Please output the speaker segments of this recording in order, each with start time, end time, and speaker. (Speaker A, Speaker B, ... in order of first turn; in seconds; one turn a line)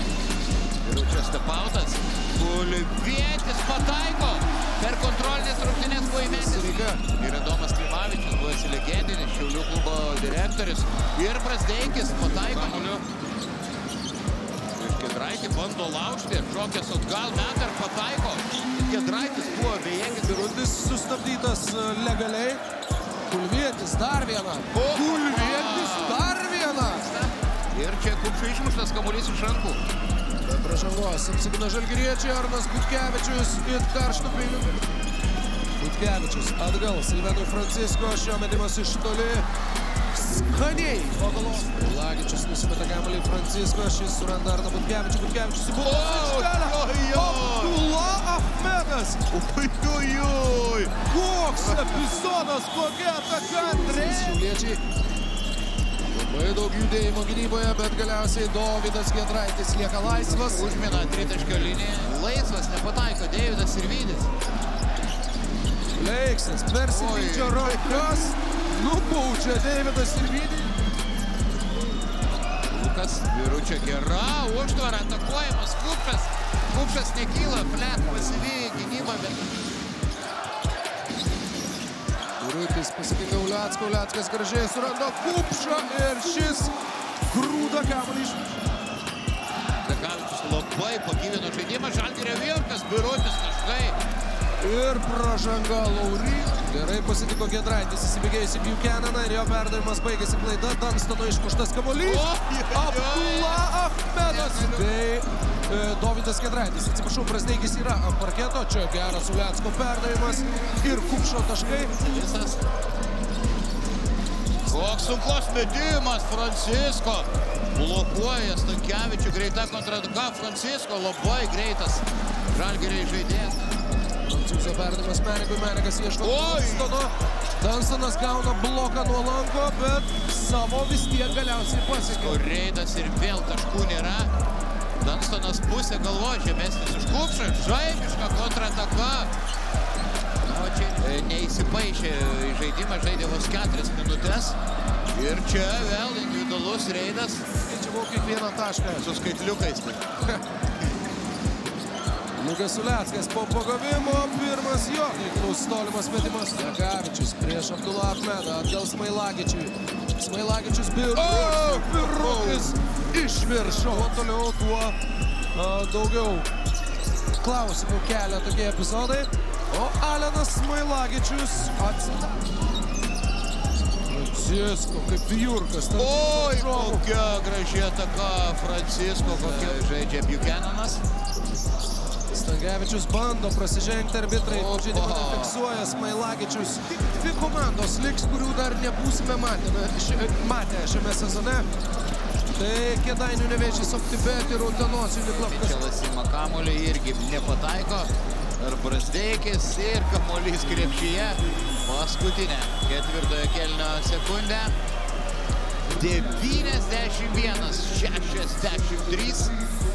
Speaker A: 0.8-13.0
Speaker B: 6.2-7.0
Speaker A: 14.8-20.5
Speaker B: 20.2-22.6
Speaker B: 23.3-27.1
Speaker A: 24.7-26.2
Speaker A: 27.0-29.8
Speaker B: 30.4-34.8
Speaker B: 35.8-39.5
Speaker B: 40.1-49.3
Speaker A: 45.8-47.8
Speaker A: 49.3-51.0
Speaker B: 51.0-54.8
Speaker A: 51.5-52.1
Speaker A: 53.6-54.4
Speaker B: 56.1-60.7
Speaker A: 60.4-64.3
Speaker B: 66.0-70.7
Speaker A: 66.9-68.1
Speaker A: 72.7-79.5
Speaker B: 82.4-86.7
Speaker B: 87.3-88.5
Speaker A: 89.8-94.0
Speaker B: 94.6-112.0
Speaker A: 102.0-105.0
Speaker A: 112.0-112.6
Speaker A: 114.7-123.6
Speaker B: 124.2-132.4
Speaker A: 126.2-127.0
Speaker A: 132.1-134.3
Speaker A: 135.0-139.3
Speaker A: 140.4-144.6
Speaker A: 145.1-147.4
Speaker B: 147.6-149.1
Speaker A: 149.0-150.0
Speaker B: 152.4-165.0
Speaker A: 161.2-162.7
Speaker B: 165.5-166.5
Speaker B: 167.4-172.3
Speaker B: 174.1-177.1
Speaker A: 175.9-181.0
Speaker B: 179.4-179.7
Speaker B: 182.3-191.7
Speaker A: 184.5-185.6
Speaker B: 192.6-195.9
Speaker A: 195.3-204.8
Speaker A: 205.9-209.5